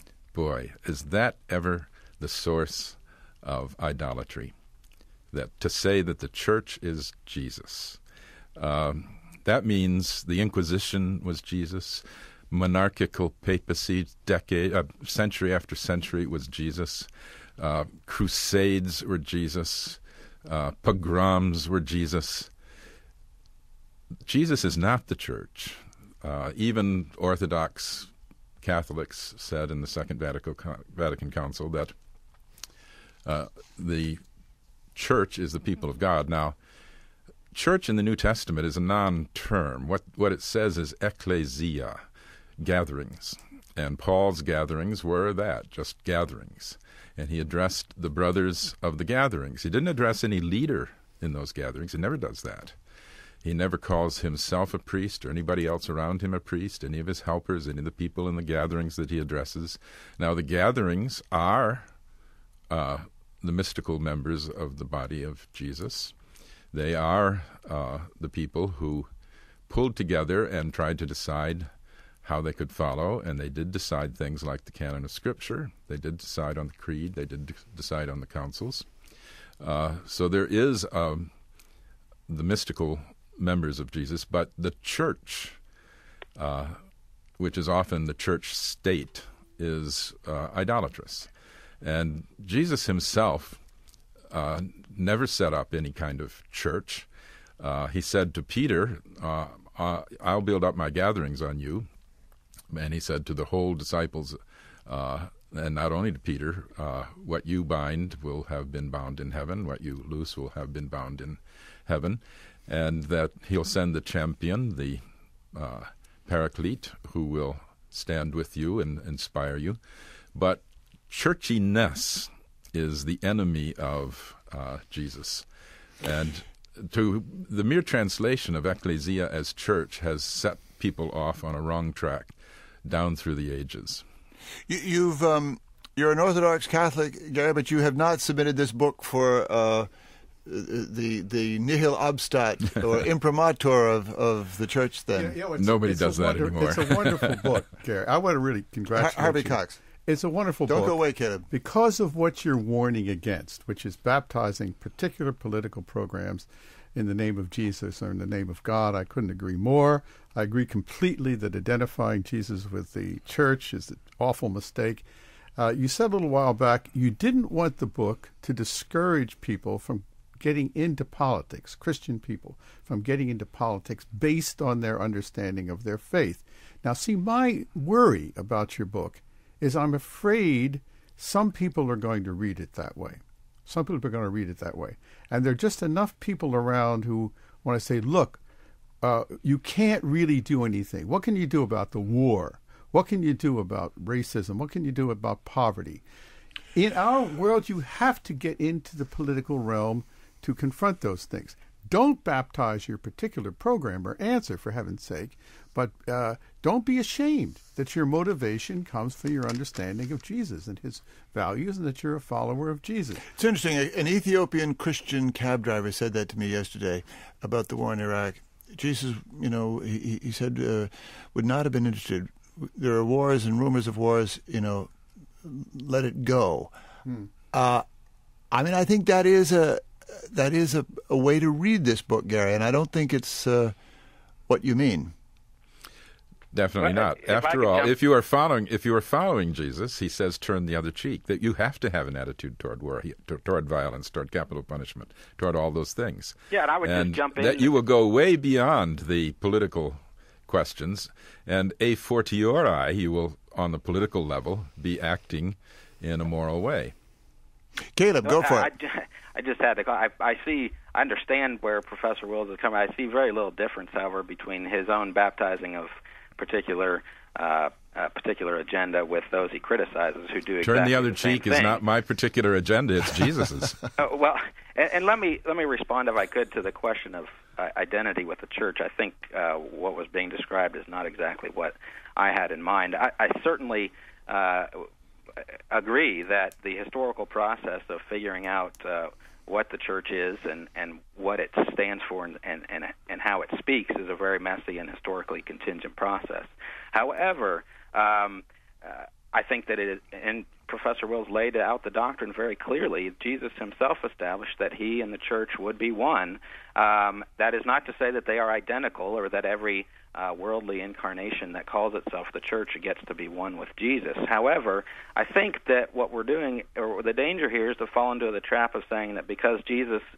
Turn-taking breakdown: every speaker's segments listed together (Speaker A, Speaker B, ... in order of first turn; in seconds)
Speaker A: 0.3-4.5, 5.3-8.0, 8.6-22.5, 24.2-28.1, 28.6-31.9, 33.2-34.2, 34.9-36.5, 37.5-42.0, 42.6-52.8, 53.4-61.9, 62.7-66.1, 66.7-69.1, 69.7-71.7, 72.2-78.8, 79.6-81.3, 82.3-85.6, 86.3-86.8, 87.4-91.3, 91.8-93.6, 94.3-97.1, 97.6-101.9, 102.7-115.0, 115.5-119.8, 120.3-125.5, 126.0-132.3, 132.8-134.0, 145.6-147.5, 236.5-256.9, 270.6-273.8
Speaker B: 134.7-139.9, 140.4-145.4, 148.9-149.8, 150.7-151.5, 213.3-226.7, 227.5-227.8, 228.5-233.7, 234.5-235.1, 257.9-258.7
Speaker C: 145.1-151.0, 151.5-165.0, 165.6-188.4, 189.0-196.0, 196.7-213.2
Speaker D: 236.8-237.9, 246.5-247.7, 258.2-271.8, 274.0-320.0